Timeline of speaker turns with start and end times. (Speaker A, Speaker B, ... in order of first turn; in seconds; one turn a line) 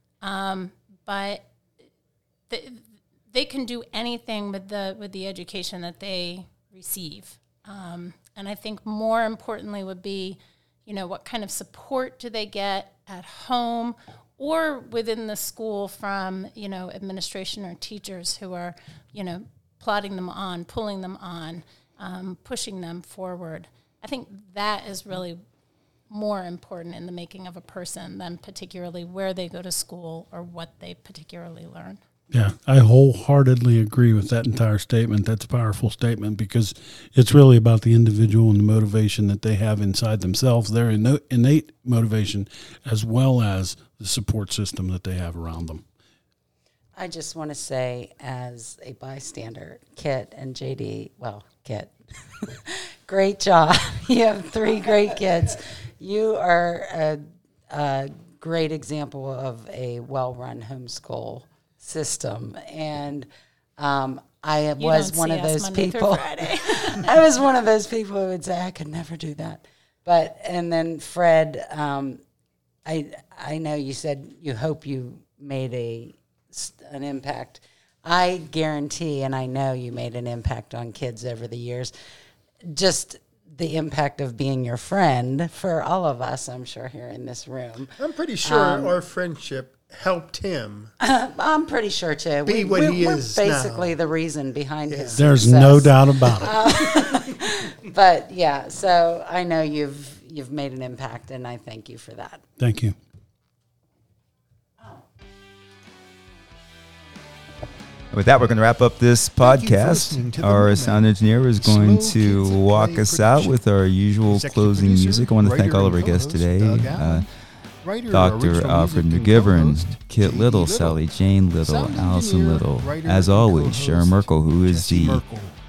Speaker A: 0.2-1.5
Speaker A: 2.5-25.4
Speaker A: 26.1-32.0
Speaker B: 32.3-45.8
Speaker C: 47.0-72.2
Speaker A: 64.8-67.1
Speaker C: 72.8-81.9
Speaker C: 82.7-88.9
Speaker D: 88.0-90.9
Speaker C: 91.0-102.4
Speaker D: 92.4-94.0
Speaker D: 94.9-95.2
Speaker B: 95.2-96.5
Speaker D: 96.5-97.3
Speaker B: 102.6-102.9
Speaker E: 108.1-117.2
Speaker D: 109.4-111.0
Speaker D: 111.6-113.6
Speaker D: 114.2-117.3
Speaker D: 117.8-121.0
Speaker E: 118.1-125.2
Speaker D: 121.6-125.6